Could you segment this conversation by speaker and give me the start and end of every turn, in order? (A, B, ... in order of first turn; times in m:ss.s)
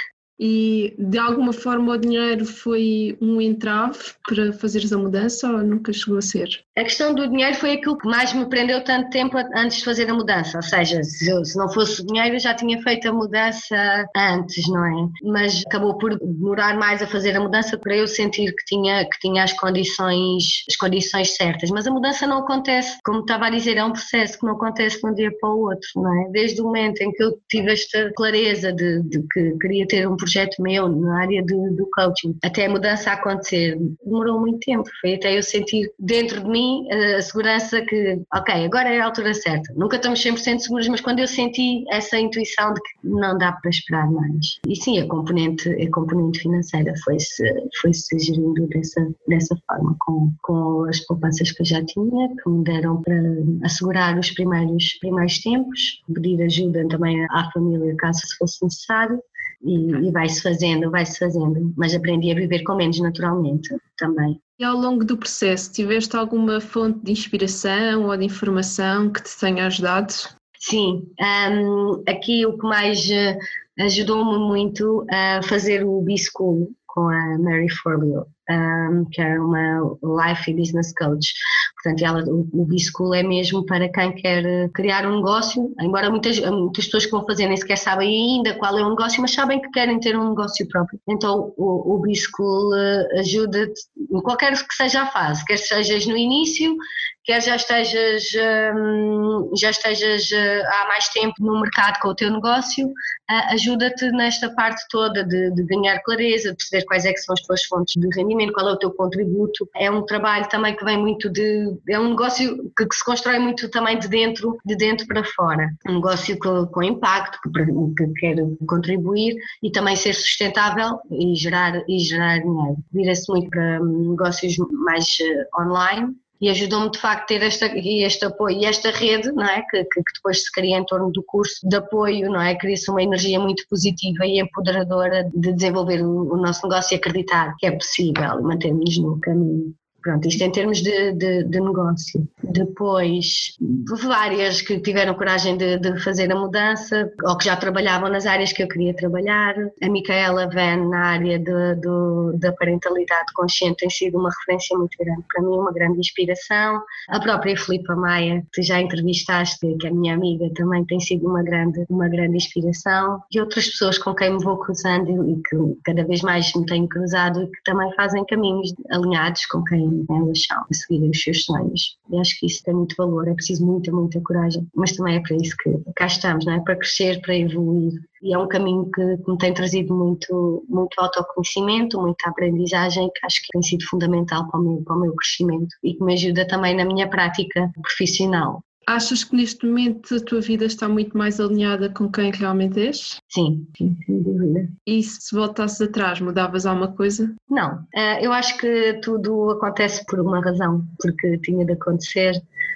0:00.4-0:06.6 A
0:06.8-1:04.4 B
1:04.6-1:10.3 A
1:10.6-3:08.6 B
3:08.9-3:13.2 A
3:13.3-3:14.7 B
3:14.9-3:17.3 A
3:17.5-3:22.4 B